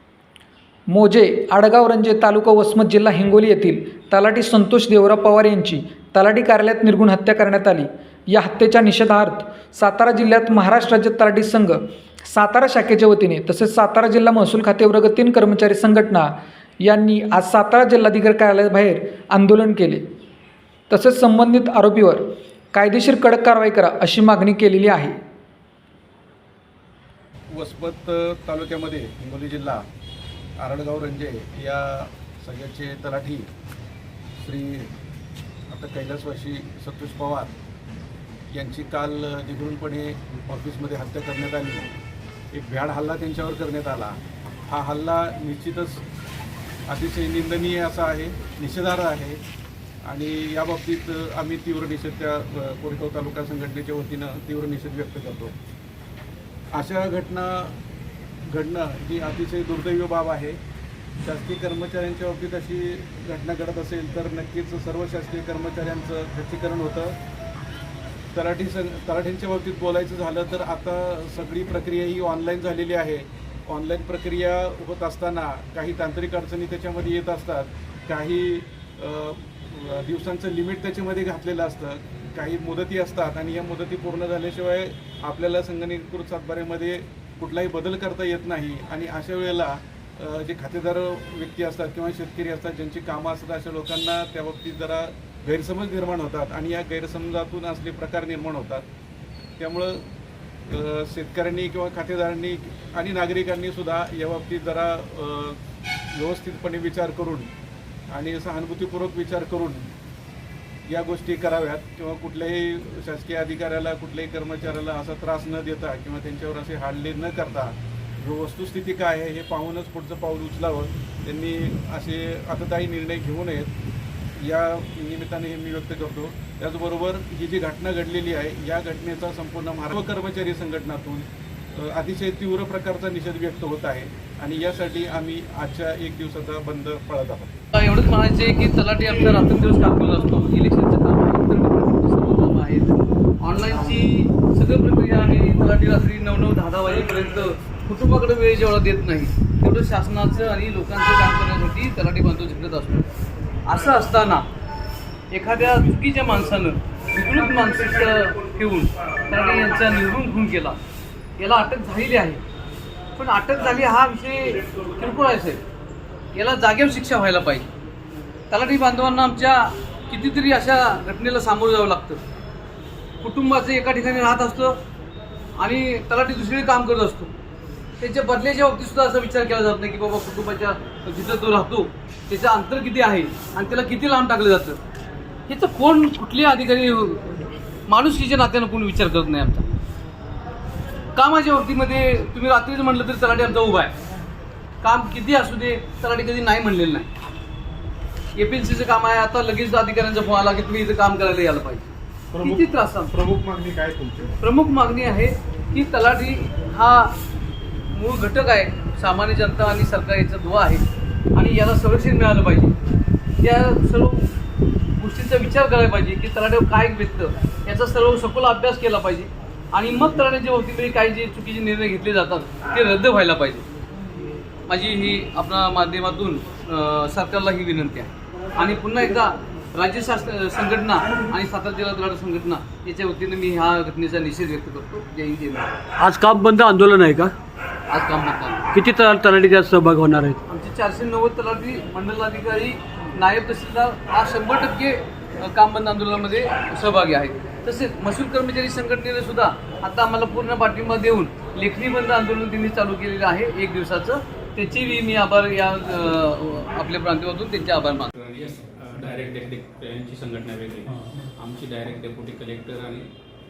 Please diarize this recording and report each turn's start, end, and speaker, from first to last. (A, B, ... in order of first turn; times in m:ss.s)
0:00.9-0:20.0 A
0:20.9-0:25.2 A
0:27.5-0:29.8 B
0:30.6-0:33.5 B
0:34.4-0:34.9 B
0:35.7-0:37.5 B
0:38.5-0:42.0 B
0:42.5-0:46.0 B
0:46.9-0:49.4 B
0:50.0-0:55.5 B
0:56.7-0:57.8 B
0:58.5-1:00.6 B
1:01.2-1:07.2 B
1:08.3-1:38.8 B
1:39.6-1:40.0 B
1:40.7-1:45.6 B
1:46.1-1:47.5 B
1:48.1-1:49.9 B
1:50.9-2:03.7 B
2:04.4-2:17.6 B
2:17.7-2:33.1 C
2:33.6-2:34.5 C
2:35.3-2:40.8 C
2:41.4-2:42.4 C
2:43.2-2:45.6 C
2:46.3-2:47.7 C
2:48.5-2:52.2 C
2:53.2-2:54.8 C
2:55.6-2:57.3 C
2:58.0-3:04.8 C
3:05.5-3:09.8 C
3:11.1-3:13.9 C
3:14.8-3:17.1 C
3:18.4-3:23.2 C
3:22.3-3:24.4 B
3:24.4-3:27.2 C
3:27.9-3:32.7 C
3:33.4-3:34.4 C
3:35.0-3:43.7 C
3:44.7-3:55.8 C
3:56.0-3:57.3 D
3:57.9-3:58.7 C
3:58.7-4:00.4 D
4:00.4-4:18.1 C
4:18.1-4:23.1 E